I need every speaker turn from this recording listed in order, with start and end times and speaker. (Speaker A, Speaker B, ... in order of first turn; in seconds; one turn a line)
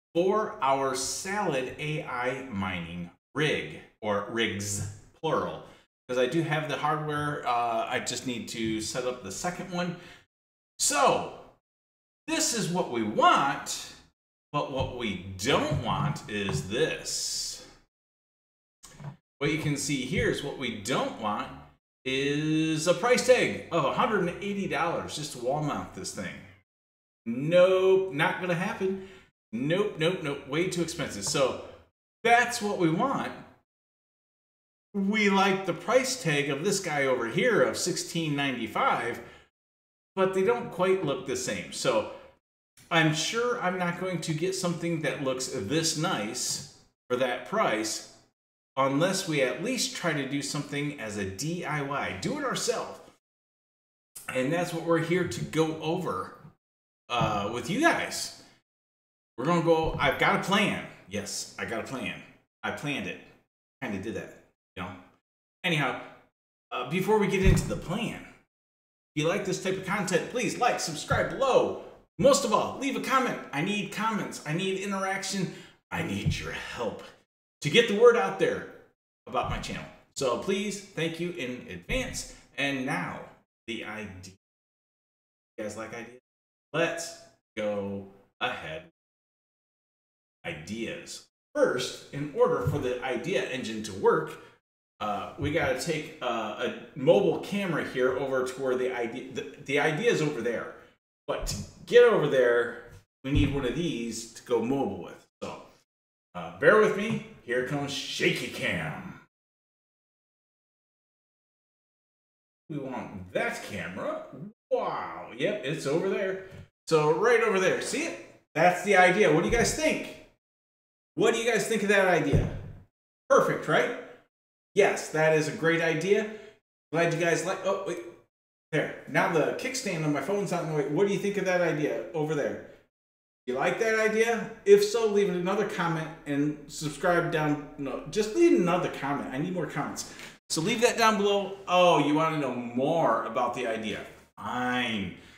Speaker A: 0.1-10.0
Speaker A: 10.8-11.5
Speaker A: 12.2-13.9
Speaker A: 14.5-17.6
Speaker A: 19.4-26.4
Speaker A: 27.2-29.0
Speaker A: 29.5-31.6
Speaker A: 32.2-33.4
Speaker A: 34.9-39.2
Speaker A: 40.1-42.1
Speaker A: 42.9-48.1
Speaker A: 48.8-53.0
Speaker A: 54.3-56.3
Speaker A: 57.1-58.4
Speaker A: 59.4-63.2
Speaker A: 63.8-65.0
Speaker A: 65.6-66.0
Speaker A: 66.7-68.3
Speaker A: 69.1-77.0
Speaker A: 77.6-78.7
Speaker A: 79.2-84.4
Speaker A: 85.6-88.9
Speaker A: 90.4-94.4
Speaker A: 95.0-105.6
Speaker A: 106.3-109.2
Speaker A: 112.7-120.2
Speaker A: 121.1-122.5
Speaker A: 123.3-124.0
Speaker A: 124.7-126.3
Speaker A: 126.9-128.1
Speaker A: 128.7-132.7
Speaker A: 133.4-145.2